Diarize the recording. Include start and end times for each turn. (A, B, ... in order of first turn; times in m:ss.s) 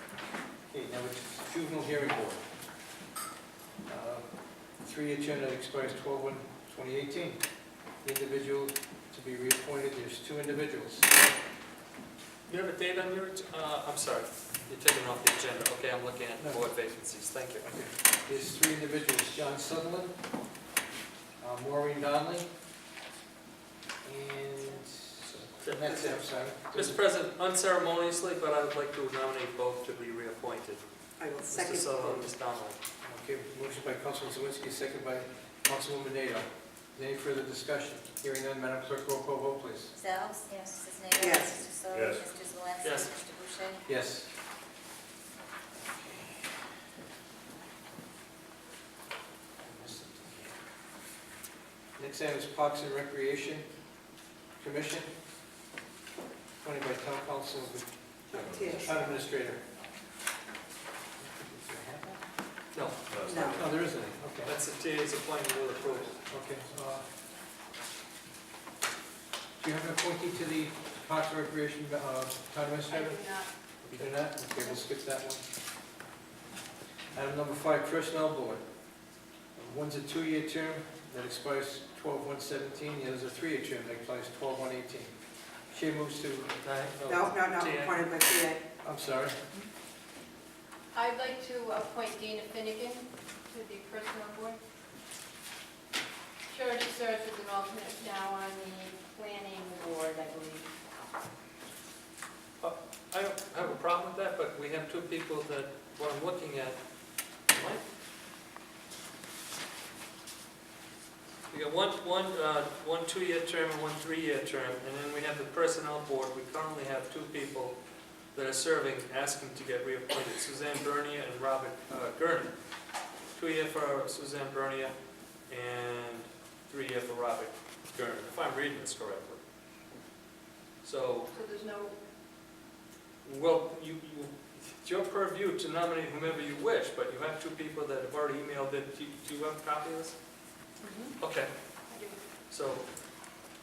0:00.7-0:02.4 A
0:03.8-0:07.4 A
0:08.0-0:11.3 A
0:12.5-0:17.7 B
0:16.4-0:16.6 A
0:17.6-0:20.1 A
0:21.4-0:22.5 A
0:24.0-0:27.0 A
0:25.6-0:30.8 B
0:31.2-0:32.2 C
0:31.5-0:32.8 B
0:33.0-0:39.9 A
0:39.9-0:43.8 D
0:41.2-0:41.6 C
0:42.8-0:43.1 B
0:43.8-0:44.3 A
0:45.7-0:46.6 A
0:49.6-0:50.6 A
0:52.0-0:53.7 A
0:54.6-0:55.1 A
0:56.6-0:59.6 A
0:58.3-0:59.1 C
1:01.2-1:02.2 A
1:02.7-1:03.0 B
1:03.2-1:03.6 C
1:03.3-1:04.5 A
1:04.4-1:06.2 B
1:06.2-1:07.1 A
1:09.6-1:13.2 A
1:12.9-1:13.5 E
1:13.8-1:14.1 B
1:13.9-1:15.4 A
1:17.1-1:18.6 A
1:19.5-1:25.1 A
1:25.7-1:26.5 A
1:26.6-1:28.0 B
1:27.1-1:28.6 C
1:28.8-1:29.4 A
1:30.9-1:34.6 E
1:36.5-1:40.7 E
1:42.6-1:46.8 B
1:47.5-1:47.8 B
1:51.5-1:57.8 B
1:58.3-2:02.5 B
2:03.3-2:04.9 B
2:05.5-2:09.4 B
2:10.8-2:11.3 B
2:11.3-2:12.0 E
2:13.2-2:20.2 B
2:20.8-2:21.2 E
2:21.2-2:21.5 B
2:21.9-2:22.2 E
2:22.5-2:22.8 B